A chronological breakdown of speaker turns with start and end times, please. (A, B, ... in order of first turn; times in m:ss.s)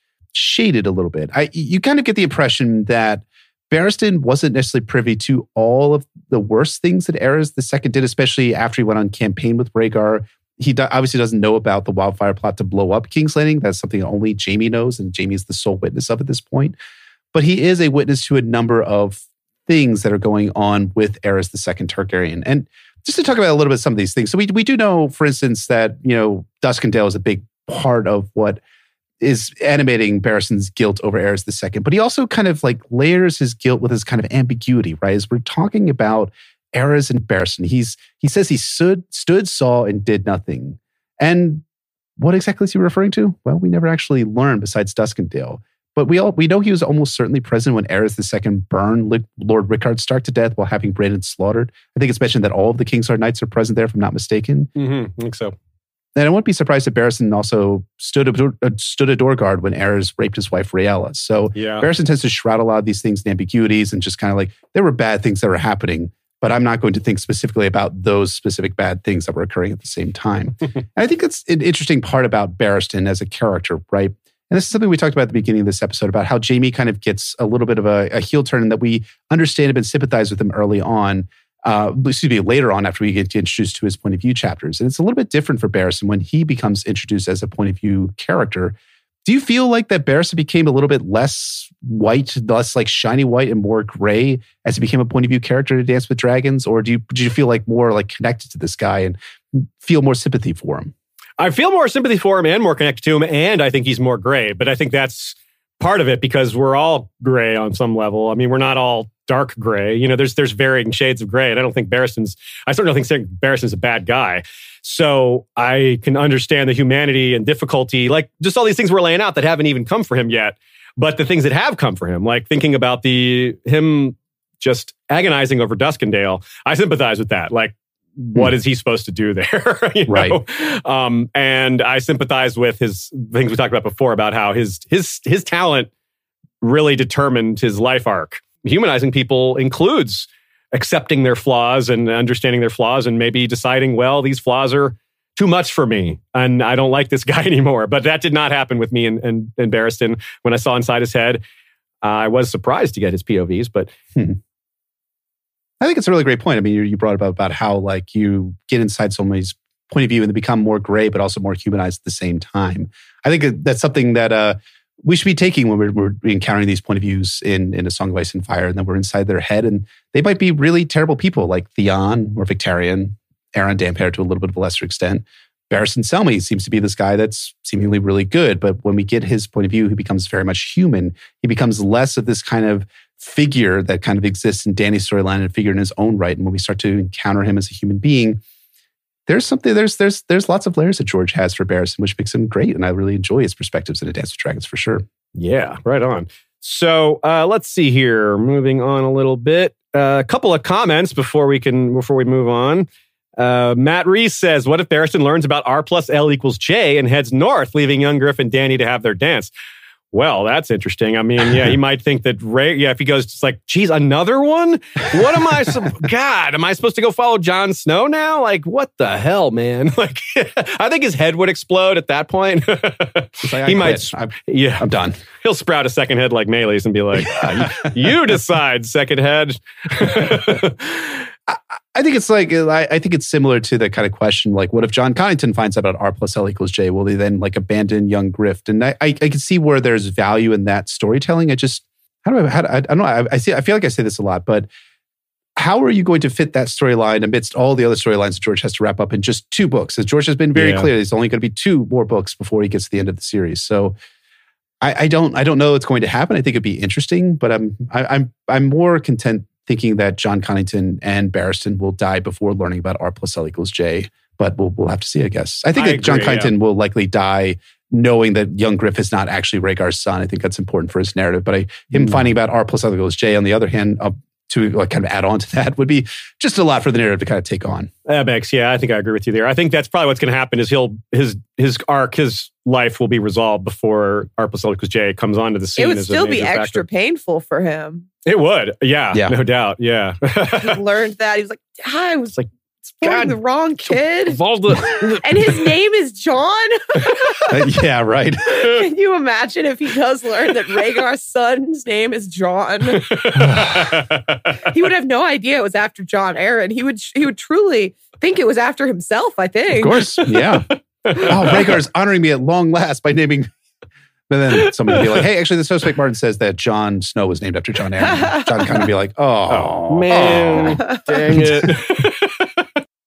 0:00.3-0:16.8 A
0:17.3-0:28.6 A
0:29.2-0:41.6 A
0:42.2-0:54.7 A
0:54.8-0:55.5 B
0:56.2-1:40.9 A
1:01.5-1:01.9 B
1:41.4-2:15.9 B
2:10.1-2:10.4 A
2:16.6-2:31.4 B
2:32.0-2:33.9 B
2:35.8-3:08.4 A
3:09.3-3:15.0 A
3:15.4-3:22.9 B
3:23.4-3:29.5 B
3:30.1-3:44.9 B
3:43.4-3:45.2 A
3:45.4-3:51.2 B
3:47.1-3:48.2 A
3:51.5-4:04.7 A
4:05.6-4:14.0 A
4:10.5-4:10.9 B
4:14.8-4:37.9 A
4:25.7-4:26.5 B
4:38.0-4:46.8 B
4:45.8-4:48.1 C
4:48.2-4:50.8 B
4:50.6-4:52.4 C
4:53.0-4:57.5 C
4:53.0-4:53.3 B
4:54.3-4:55.2 B
4:57.5-4:58.6 A
4:58.5-5:03.7 C
5:03.0-5:04.5 B
5:04.6-5:10.2 C
5:09.7-5:10.7 A
5:10.2-5:11.5 B
5:11.2-5:13.5 A
5:14.3-5:21.7 A
5:14.6-5:15.2 B
5:19.5-5:22.6 B